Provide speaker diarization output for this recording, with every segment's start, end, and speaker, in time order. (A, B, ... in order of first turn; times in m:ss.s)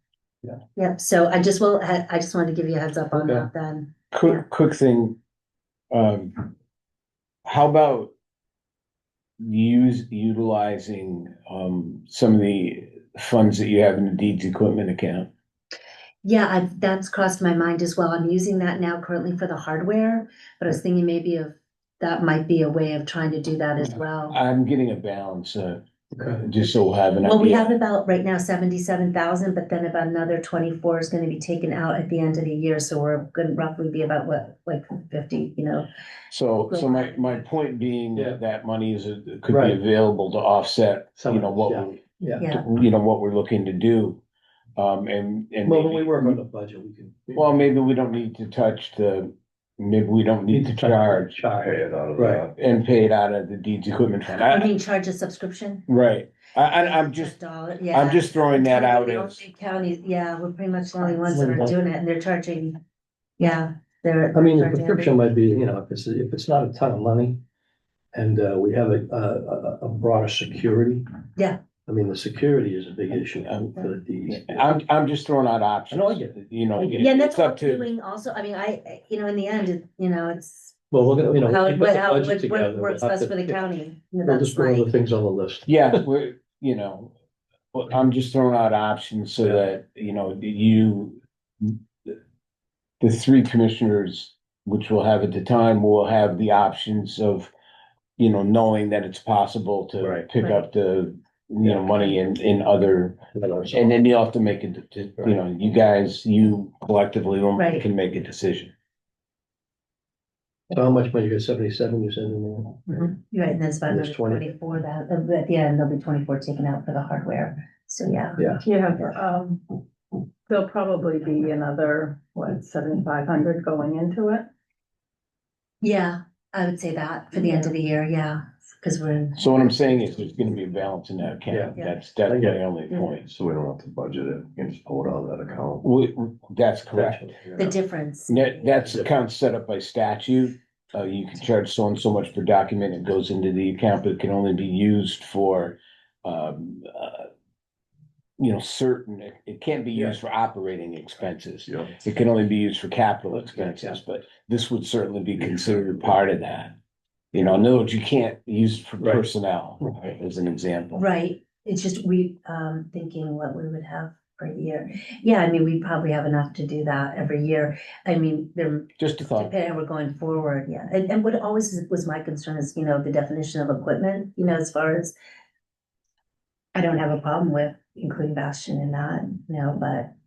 0:00.8-0:04.4 A
0:03.1-0:03.5 B
0:04.1-0:05.1 C
0:05.9-0:06.5 C
0:07.4-0:08.1 C
0:09.4-0:15.3 C
0:16.2-0:24.4 A
0:24.3-0:27.7 C
0:26.2-0:26.4 B
0:27.2-0:35.9 A
0:36.3-0:44.2 C
0:36.7-0:37.4 A
0:38.1-0:38.4 B
0:39.5-0:39.8 B
0:41.2-0:42.5 B
0:42.4-0:42.6 A
0:44.8-0:46.4 C
0:45.6-0:47.7 B
0:47.3-0:51.4 C
0:50.5-0:52.5 B
0:51.6-0:52.5 D
0:52.5-0:54.7 C
0:54.4-0:55.9 A
0:55.9-0:57.3 C
0:56.8-1:02.8 A
0:57.9-0:59.4 C
1:01.2-1:01.7 B
1:03.4-1:05.1 A
1:04.3-1:07.4 B
1:08.1-1:11.0 B
1:11.8-1:14.7 B
1:14.3-1:17.8 C
1:15.9-1:17.1 B
1:17.0-1:20.8 A
1:20.9-1:23.6 B
1:21.4-1:24.8 A
1:24.2-1:26.0 B
1:25.7-1:27.1 C
1:27.7-1:32.2 C
1:33.0-1:37.5 C
1:38.2-1:43.2 C
1:40.0-1:40.3 B
1:40.4-1:40.7 A
1:41.6-1:41.9 B
1:43.3-1:44.0 B
1:43.7-1:48.7 C
1:47.6-1:47.8 A
1:50.7-1:53.1 B
1:52.9-1:58.4 A
1:53.9-1:54.5 B
1:58.4-1:58.6 B
1:58.6-1:59.8 E
2:00.5-2:04.5 E
2:05.8-2:09.5 A
2:09.4-2:13.3 C
2:11.5-2:12.6 B
2:13.2-2:15.8 D
2:15.8-2:17.2 C
2:16.9-2:17.6 B
2:17.6-2:18.7 A
2:18.3-2:27.3 C
2:18.8-2:19.1 B
2:28.4-2:36.7 C
2:31.7-2:32.0 D
2:33.3-2:34.0 B
2:37.3-2:41.0 C
2:40.9-2:55.1 A
2:49.0-2:49.5 C
2:56.7-3:00.1 A